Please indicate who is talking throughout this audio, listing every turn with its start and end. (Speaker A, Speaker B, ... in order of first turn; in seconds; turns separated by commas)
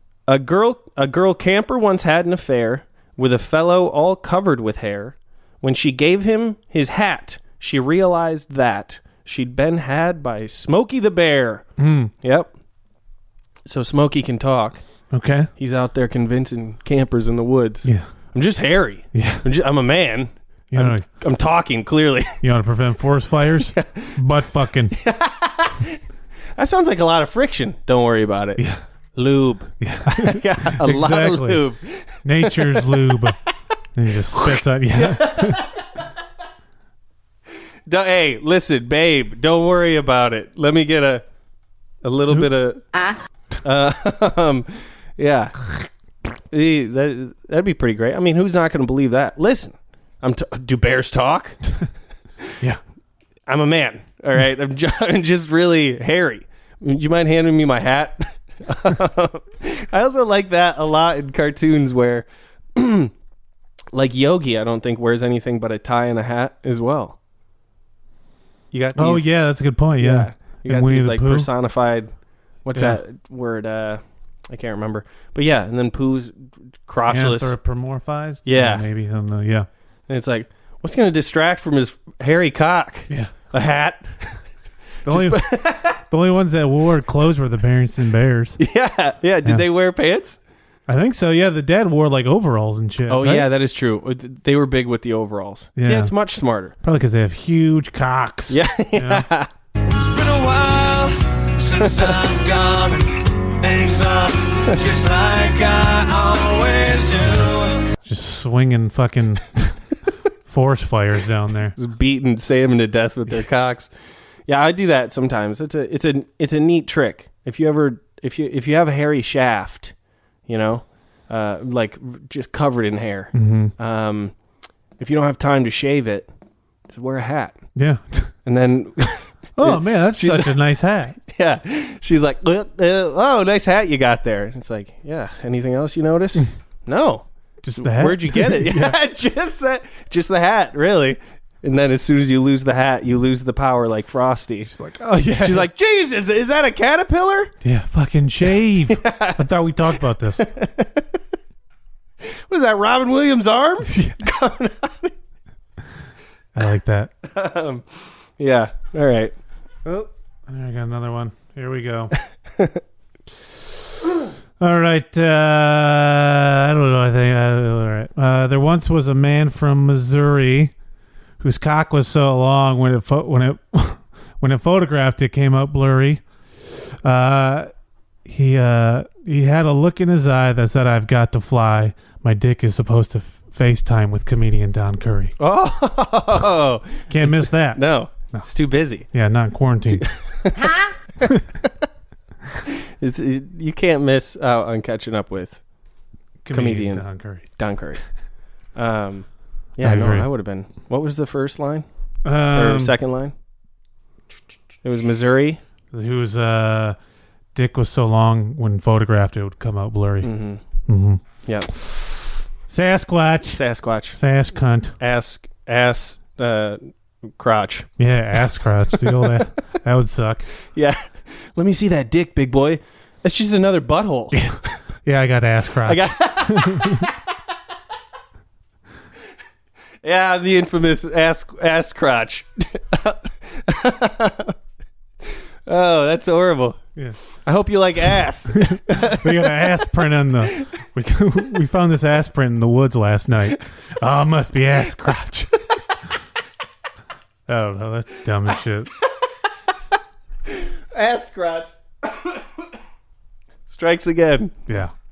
Speaker A: 0.3-11.7, Speaker B: 11.8-12.1, Speaker A: 12.2-12.5, Speaker A: 13.7-14.8, Speaker B: 15.1-15.5, Speaker A: 15.6-22.4, Speaker B: 19.1-19.4, Speaker B: 20.7-21.1, Speaker B: 22.4-24.9, Speaker A: 23.7-24.2, Speaker A: 24.9-26.0, Speaker A: 26.6-33.2, Speaker B: 29.8-31.6, Speaker B: 32.2-33.4, Speaker B: 33.9-35.7, Speaker A: 34.4-35.8, Speaker A: 37.9-41.2, Speaker A: 42.0-42.8, Speaker A: 43.6-45.6, Speaker A: 46.5-51.7, Speaker A: 53.5-63.1, Speaker A: 63.9-67.2, Speaker A: 68.7-69.3, Speaker B: 68.9-71.5, Speaker A: 70.0-72.1, Speaker A: 72.6-77.5, Speaker B: 72.7-73.0, Speaker B: 77.1-79.7, Speaker A: 78.4-78.8, Speaker A: 80.1-84.4, Speaker B: 85.0-88.6, Speaker A: 85.1-86.0, Speaker A: 88.6-90.4, Speaker B: 90.9-93.5, Speaker A: 93.1-96.7, Speaker B: 95.8-96.1, Speaker B: 96.8-99.2, Speaker A: 98.5-99.5, Speaker C: 99.8-107.8, Speaker A: 101.8-102.1, Speaker B: 108.0-111.7, Speaker A: 111.8-113.9, Speaker A: 114.5-119.9, Speaker A: 120.5-124.3, Speaker B: 123.3-123.7, Speaker A: 125.0-126.3, Speaker A: 126.9-127.6, Speaker B: 127.7-128.3, Speaker A: 128.4-130.6, Speaker B: 129.6-131.2, Speaker A: 131.3-137.2, Speaker B: 137.6-139.0, Speaker A: 137.8-144.7, Speaker B: 144.7-145.7, Speaker A: 145.3-147.5, Speaker B: 147.6-150.4, Speaker A: 148.8-149.5, Speaker A: 150.4-151.1, Speaker A: 152.5-155.1, Speaker B: 153.9-154.2, Speaker B: 156.5-157.1, Speaker A: 157.2-159.3, Speaker B: 159.8-162.1, Speaker B: 164.6-170.7, Speaker B: 171.4-176.2, Speaker B: 177.0-177.7, Speaker B: 178.2-185.3, Speaker A: 185.4-189.1, Speaker B: 187.1-188.5, Speaker B: 189.0-190.1, Speaker A: 189.9-190.7, Speaker A: 193.0-195.6, Speaker B: 196.4-197.4, Speaker A: 196.5-198.0, Speaker A: 198.8-201.8, Speaker B: 199.8-200.3, Speaker B: 202.2-202.9, Speaker A: 202.5-203.3, Speaker A: 204.8-205.6, Speaker B: 205.9-207.0, Speaker B: 207.5-210.3, Speaker A: 210.2-210.6, Speaker B: 210.9-211.2, Speaker A: 211.4-211.7, Speaker B: 211.7-213.6, Speaker A: 213.5-214.2, Speaker B: 214.1-214.9, Speaker A: 215.0-217.9, Speaker B: 218.0-220.4, Speaker A: 218.9-219.3, Speaker A: 220.7-224.4, Speaker B: 224.3-227.1, Speaker A: 225.8-227.1, Speaker A: 230.0-234.5, Speaker A: 235.7-236.8, Speaker A: 237.4-239.8, Speaker B: 238.5-245.6, Speaker B: 247.5-248.9, Speaker A: 250.5-252.3, Speaker A: 253.7-254.5, Speaker B: 254.7-254.9